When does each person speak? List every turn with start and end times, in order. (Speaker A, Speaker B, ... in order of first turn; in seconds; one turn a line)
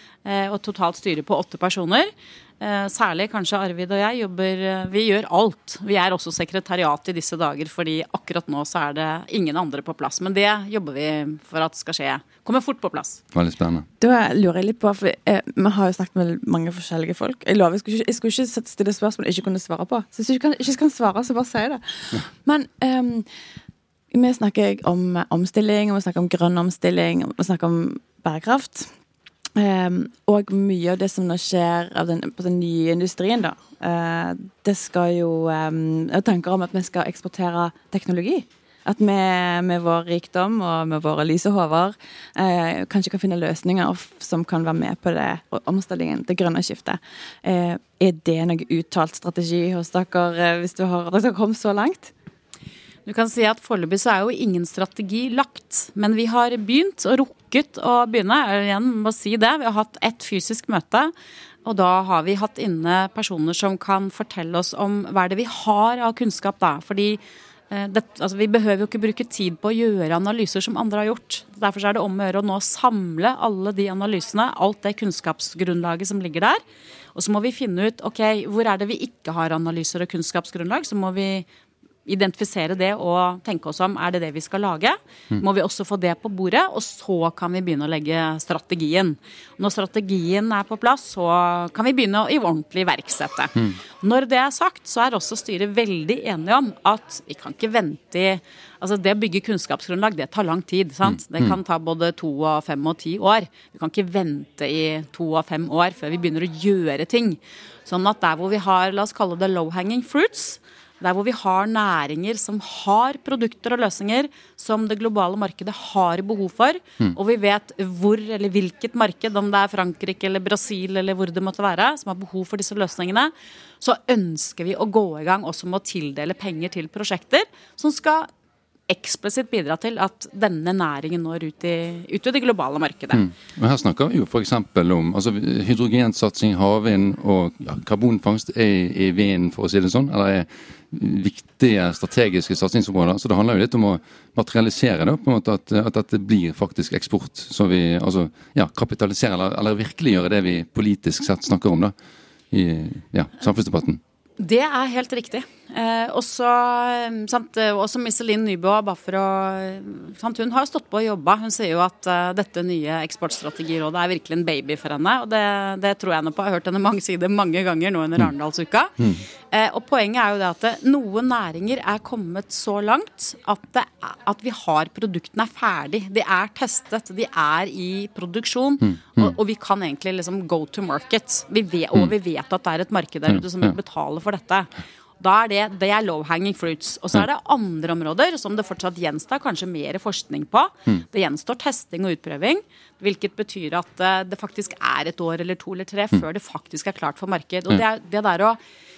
Speaker A: 0.2-13.2
Speaker B: 13.3-13.8
Speaker C: 14.0-23.2
Speaker C: 24.1-28.9
Speaker C: 29.6-52.1
Speaker A: 53.0-61.1
Speaker A: 61.6-76.6
Speaker A: 77.1-81.5
Speaker A: 82.0-128.3
Speaker A: 128.9-133.2
Speaker B: 133.1-151.9
Speaker B: 152.5-154.0
Speaker A: 154.4-184.7
Speaker B: 178.8-179.3
Speaker B: 183.3-183.7
Speaker A: 185.2-198.6